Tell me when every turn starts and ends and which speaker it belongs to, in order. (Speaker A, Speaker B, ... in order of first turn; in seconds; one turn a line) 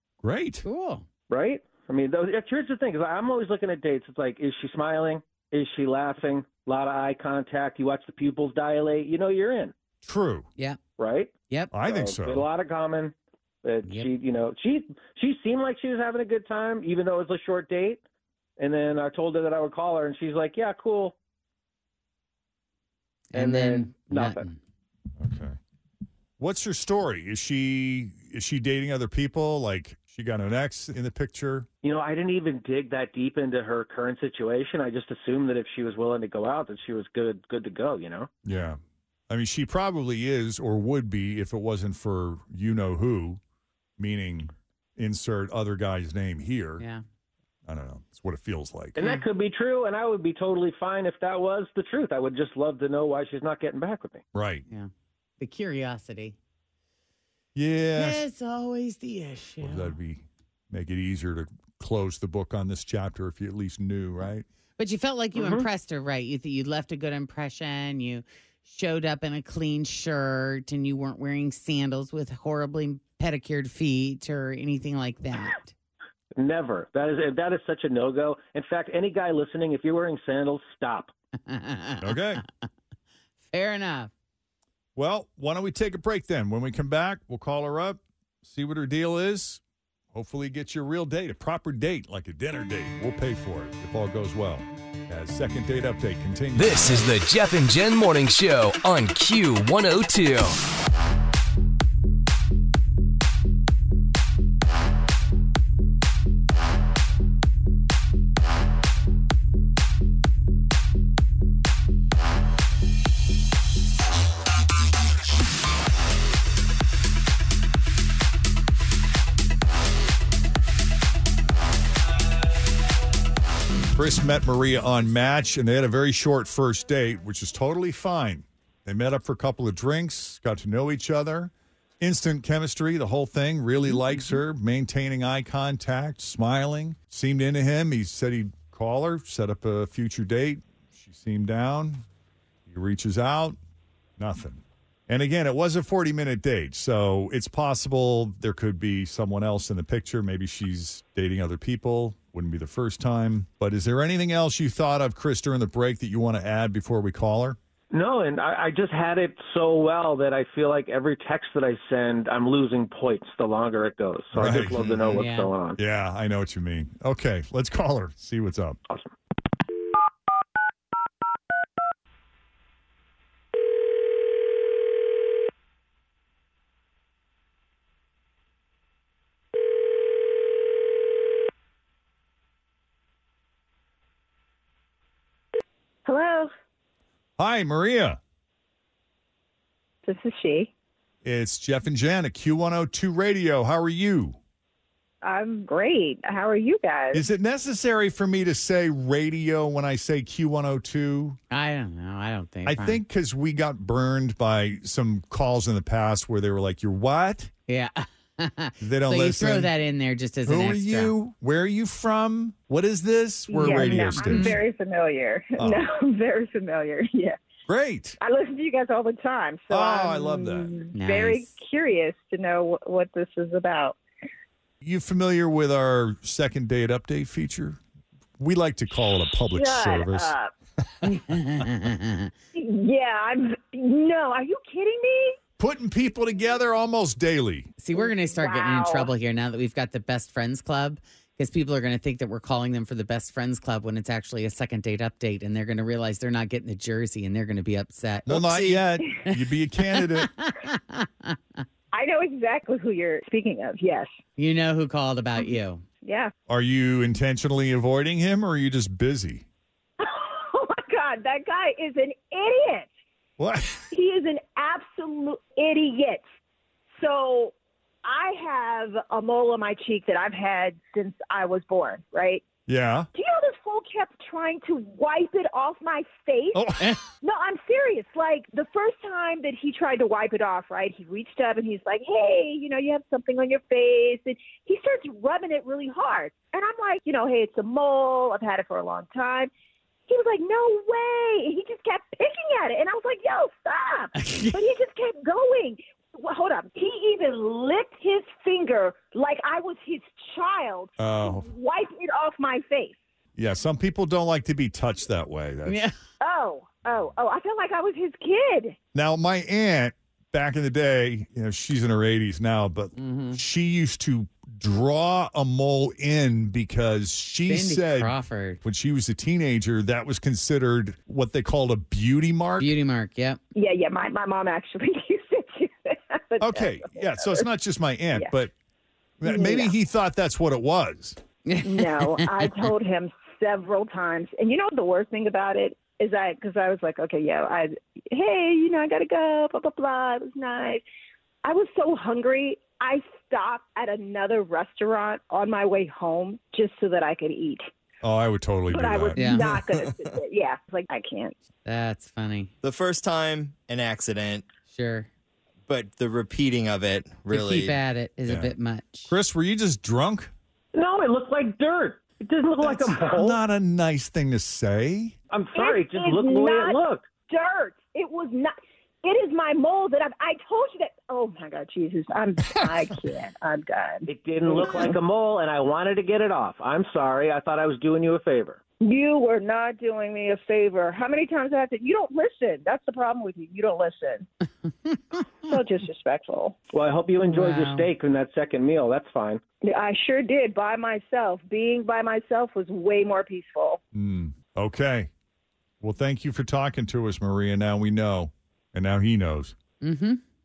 Speaker A: 0.2-0.6
Speaker B: 0.6-1.0
Speaker C: 1.3-9.7
Speaker A: 10.0-10.5
Speaker C: 11.0-18.0
Speaker B: 11.5-11.7
Speaker A: 11.7-12.4
Speaker B: 13.8-14.1
Speaker C: 18.6-21.1
Speaker B: 23.3-24.6
Speaker C: 23.3-24.5
Speaker A: 25.2-25.6
Speaker A: 26.4-31.7
Speaker C: 31.8-38.3
Speaker A: 38.4-43.4
Speaker A: 44.0-46.8
Speaker B: 46.8-47.0
Speaker A: 47.6-49.0
Speaker C: 49.0-54.2
Speaker A: 54.3-54.6
Speaker B: 54.7-56.4
Speaker A: 57.5-58.2
Speaker B: 57.9-59.9
Speaker A: 59.6-64.5
Speaker B: 64.8-75.7
Speaker C: 65.3-65.7
Speaker C: 76.4-81.1
Speaker B: 81.5-82.4
Speaker A: 82.0-82.4
Speaker B: 83.5-84.1
Speaker A: 85.0-89.6
Speaker A: 90.1-97.1
Speaker D: 96.5-100.6
Speaker A: 123.9-142.0
Speaker A: 142.7-143.6
Speaker A: 144.2-157.6
Speaker C: 157.9-165.8
Speaker A: 164.3-165.2
Speaker B: 165.1-165.5
Speaker A: 165.8-168.8
Speaker E: 186.0-186.5
Speaker A: 187.4-188.2
Speaker E: 190.0-190.7
Speaker A: 191.2-194.4
Speaker E: 195.2-197.2
Speaker A: 197.1-201.4
Speaker B: 201.5-203.0
Speaker A: 202.7-207.5
Speaker B: 207.7-211.1
Speaker A: 208.8-209.7
Speaker A: 210.4-214.6
Speaker E: 213.5-217.4
Speaker B: 213.7-214.6
Speaker A: 215.6-215.9
Speaker A: 217.7-218.2
Speaker E: 218.2-224.0
Speaker A: 219.7-220.8
Speaker B: 220.9-221.6
Speaker A: 224.8-227.8
Speaker A: 228.4-230.3
Speaker E: 229.5-230.5
Speaker B: 231.0-232.3
Speaker E: 232.5-235.4
Speaker A: 235.6-237.7
Speaker B: 237.8-248.4
Speaker E: 237.9-239.1
Speaker A: 248.2-250.3
Speaker F: 248.3-248.8
Speaker B: 249.3-251.4
Speaker E: 251.9-254.1
Speaker B: 254.4-255.8
Speaker E: 256.0-256.3
Speaker A: 256.5-259.4
Speaker E: 260.0-262.9
Speaker A: 263.4-263.8
Speaker E: 263.9-266.2
Speaker E: 267.0-272.4
Speaker A: 272.7-273.1
Speaker E: 273.1-276.6
Speaker A: 276.5-276.9
Speaker E: 277.2-289.5
Speaker E: 290.1-302.9
Speaker B: 294.2-294.6
Speaker A: 301.0-301.5
Speaker A: 303.4-305.8
Speaker B: 305.6-305.9
Speaker E: 306.2-308.8
Speaker A: 308.9-322.7
Speaker B: 313.0-313.4
Speaker B: 317.5-318.6
Speaker B: 322.6-323.4
Speaker E: 323.5-327.5
Speaker A: 326.4-328.5
Speaker A: 329.2-331.2
Speaker E: 329.2-329.7
Speaker B: 331.4-332.7
Speaker E: 331.6-340.8
Speaker E: 341.4-347.6
Speaker A: 348.0-349.4
Speaker E: 348.7-351.4
Speaker B: 349.1-349.5
Speaker F: 349.6-350.0
Speaker B: 351.6-352.5
Speaker F: 352.6-354.4
Speaker B: 354.7-355.1
Speaker F: 355.7-357.8
Speaker B: 357.3-359.1
Speaker A: 358.3-358.5
Speaker A: 359.1-360.3
Speaker C: 360.7-363.4
Speaker A: 362.8-365.1
Speaker C: 365.3-367.1
Speaker E: 365.5-374.9
Speaker A: 372.5-372.8
Speaker C: 374.1-378.6
Speaker E: 378.8-384.3
Speaker E: 385.4-386.6
Speaker C: 386.7-389.4
Speaker B: 387.2-387.9
Speaker E: 389.6-393.8
Speaker A: 393.9-395.1
Speaker A: 395.8-399.5
Speaker B: 399.8-400.2